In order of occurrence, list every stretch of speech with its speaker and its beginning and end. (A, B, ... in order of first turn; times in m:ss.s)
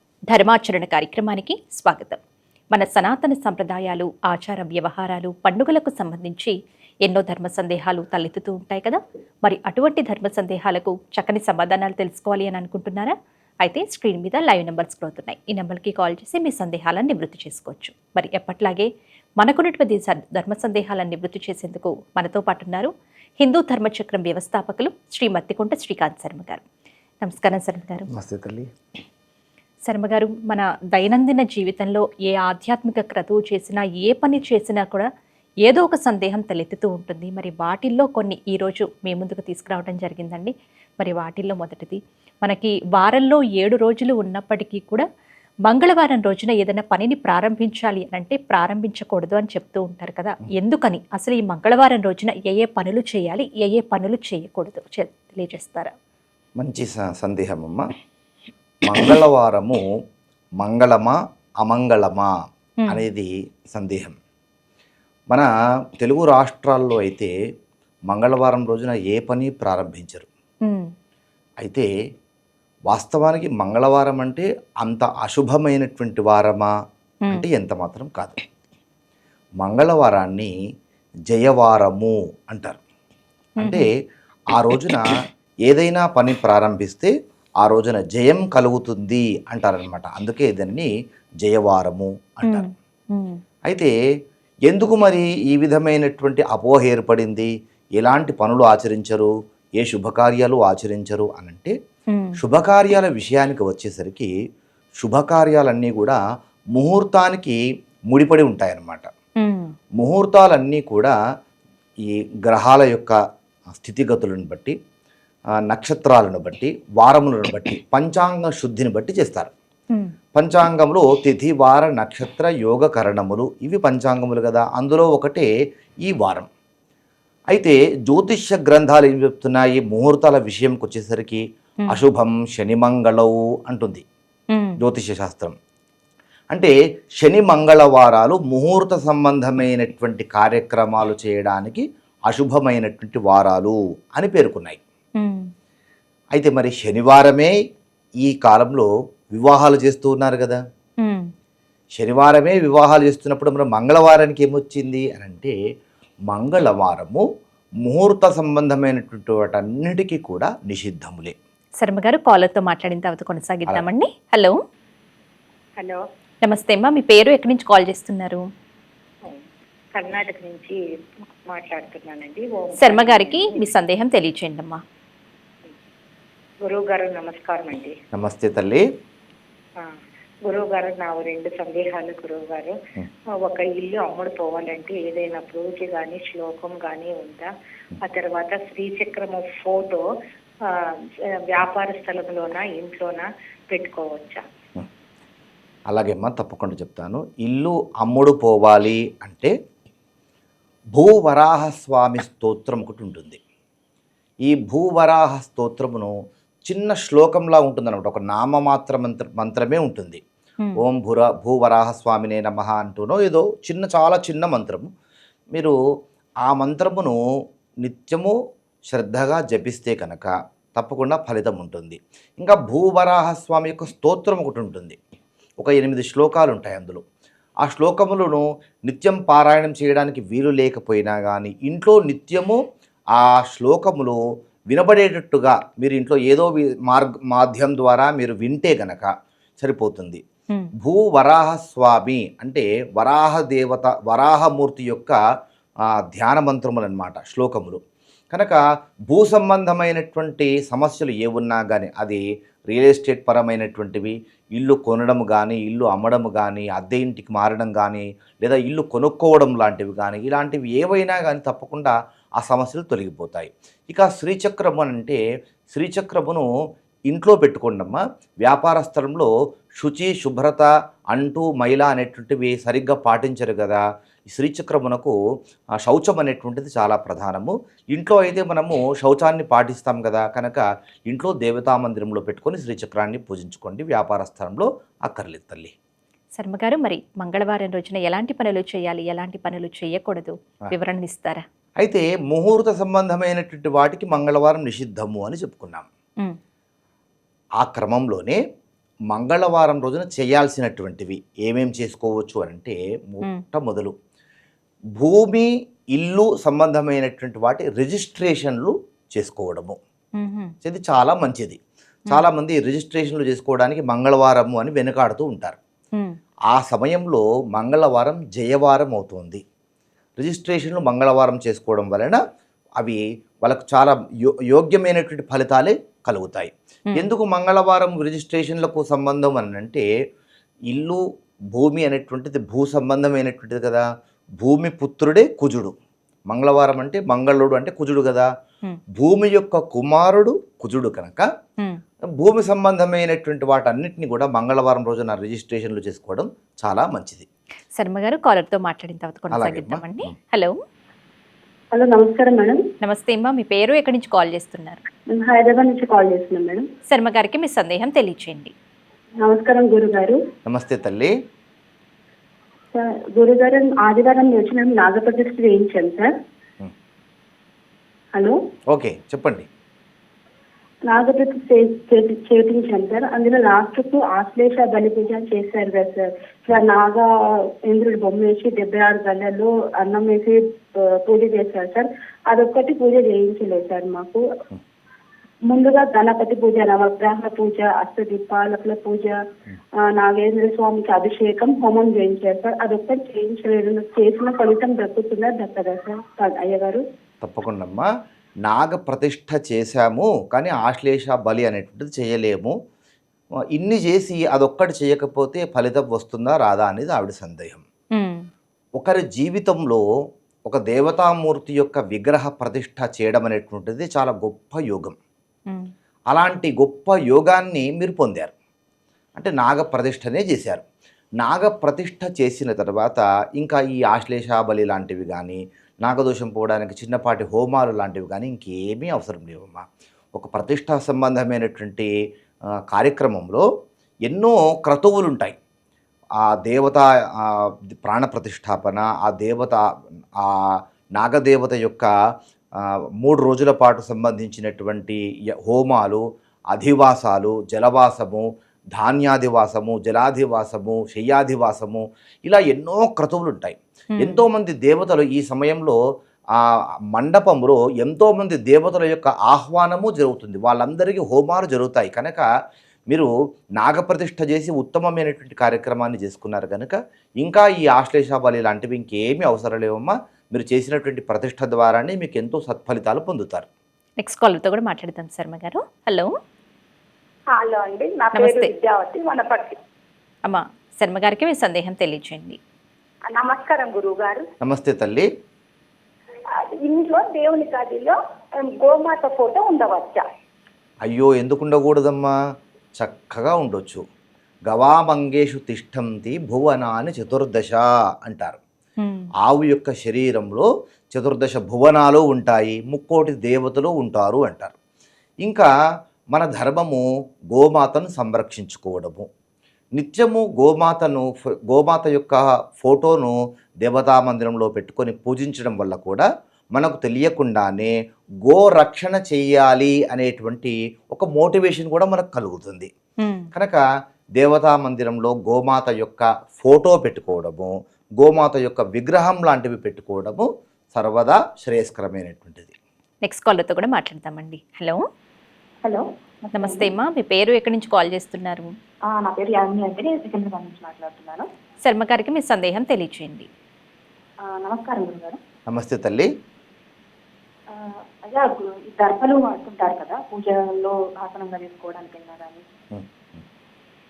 0:00.3-0:02.2 A
0:02.7-0:18.9 A
0:19.4-0:26.6 A
0:27.2-0:28.1 A
0:28.1-0:28.7 B
0:29.8-0:35.1 A
0:35.6-0:45.0 A
0:45.6-0:55.9 A
0:56.6-0:57.8 B
0:58.8-0:59.8 B
1:00.6-1:02.3 B
1:02.9-1:04.2 B
1:06.0-1:07.3 B
1:08.1-1:10.3 B
1:10.6-1:10.9 A
1:11.6-1:11.9 B
1:12.9-1:16.7 B
1:17.3-1:18.4 B
1:19.6-1:20.5 B
1:21.3-1:22.8 B
1:23.6-1:23.8 A
1:23.6-1:23.9 B
1:24.5-1:25.1 B
1:25.6-1:30.9 B
1:31.4-1:32.6 B
1:32.4-1:33.4 A
1:34.6-1:41.7 B
1:42.1-1:42.4 A
1:42.4-1:44.3 B
1:45.0-1:46.2 B
1:46.7-1:47.6 B
1:48.1-1:49.1 B
1:49.4-1:49.7 A
1:50.0-1:51.1 B
1:52.0-1:53.2 B
1:53.7-1:54.7 B
1:55.7-1:59.5 B
2:00.3-2:05.5 B
2:06.0-2:06.5 B
2:07.5-2:14.0 B
2:14.8-2:15.5 B
2:16.5-2:24.8 B
2:25.2-2:25.5 A
2:26.3-2:27.5 B
2:28.2-2:30.6 B
2:31.0-2:31.3 A
2:32.0-2:35.5 B
2:36.3-2:37.2 B
2:37.8-2:41.3 B
2:41.8-2:44.6 A
2:46.4-2:48.4 A
2:50.0-2:50.8 C
2:51.4-2:53.7 C
2:52.8-2:54.8 A
2:56.6-2:57.9 C
2:58.1-2:58.8 B
2:59.8-3:02.8 C
3:03.4-3:07.5 C
3:08.0-3:10.0 C
3:11.5-3:14.4 C
3:15.9-3:19.5 B
3:20.9-3:23.4 B
3:24.4-3:26.1 B
3:26.7-3:30.2 B
3:30.8-3:34.9 B
3:36.4-3:37.2 B
3:37.8-3:38.3 B
3:38.9-3:45.0 B
3:45.6-3:47.0 B
3:47.6-3:52.6 B
3:53.1-3:54.2 B
3:54.7-4:00.2 B
4:00.8-4:05.2 B
4:06.1-4:07.8 B
4:08.3-4:25.2 B
4:25.7-4:26.5 B
4:27.1-4:35.1 B
4:35.8-4:45.7 B
4:46.4-4:51.4 A
4:51.8-4:55.8 B
4:57.6-4:58.4 B
4:59.1-5:03.9 B
5:05.0-5:09.8 B
5:10.2-5:10.5 A
5:10.6-5:11.6 B
5:12.1-5:15.6 B
5:16.5-5:19.4 B
5:20.2-5:22.2 B
5:22.8-5:24.0 B
5:24.5-5:29.8 B
5:30.7-5:31.0 B
5:31.5-5:33.8 B
5:34.4-5:35.7 B
5:36.3-5:38.3 B
5:38.9-5:41.2 B
5:42.2-5:47.2 B
5:47.8-5:50.5 A
5:49.3-5:50.1 B
5:51.7-5:52.6 D
5:52.8-5:54.8 A
5:55.1-5:56.6 D
5:56.9-5:58.5 A
5:59.2-6:00.2 D
6:00.4-6:01.1 B
6:02.7-6:06.1 D
6:08.7-6:09.4 B
6:10.9-6:17.1 D
6:17.7-6:24.2 D
6:25.5-6:29.2 D
6:29.9-6:36.8 D
6:37.2-6:37.9 B
6:38.4-6:42.5 B
6:43.5-6:47.6 B
6:47.9-6:48.3 A
6:48.8-6:49.8 B
6:50.4-6:55.0 B
6:56.1-6:58.3 B
6:59.2-7:00.6 B
7:01.2-7:11.9 B
7:12.7-7:13.4 B
7:14.0-7:15.4 B
7:16.2-7:17.3 B
7:17.8-7:19.6 B
7:20.2-7:21.9 B
7:22.6-7:35.8 B
7:34.0-7:34.2 A
7:36.4-7:42.2 B
7:42.9-7:53.5 B
7:54.0-7:56.1 A
7:57.4-7:59.5 E
7:58.1-7:58.5 A
8:00.3-8:02.4 A
8:03.1-8:04.2 E
8:04.4-8:05.1 B
8:06.6-8:07.9 E
8:08.6-8:10.0 E
8:10.8-8:12.1 B
8:12.8-8:13.8 B
8:14.5-8:18.4 B
8:18.8-8:19.1 A
8:19.2-8:24.5 B
8:25.2-8:25.5 B
8:26.1-8:29.1 B
8:29.8-8:37.7 B
8:38.2-8:42.7 B
8:43.0-8:43.3 A
8:43.3-8:43.6 B
8:44.2-8:52.5 B
8:53.0-8:54.8 A
8:55.6-8:56.7 E
8:56.3-8:58.5 A
8:58.9-9:01.2 E
9:01.6-9:03.3 A
9:04.2-9:05.2 E
9:05.5-9:06.1 B
9:07.5-9:12.4 E
9:12.7-9:13.2 B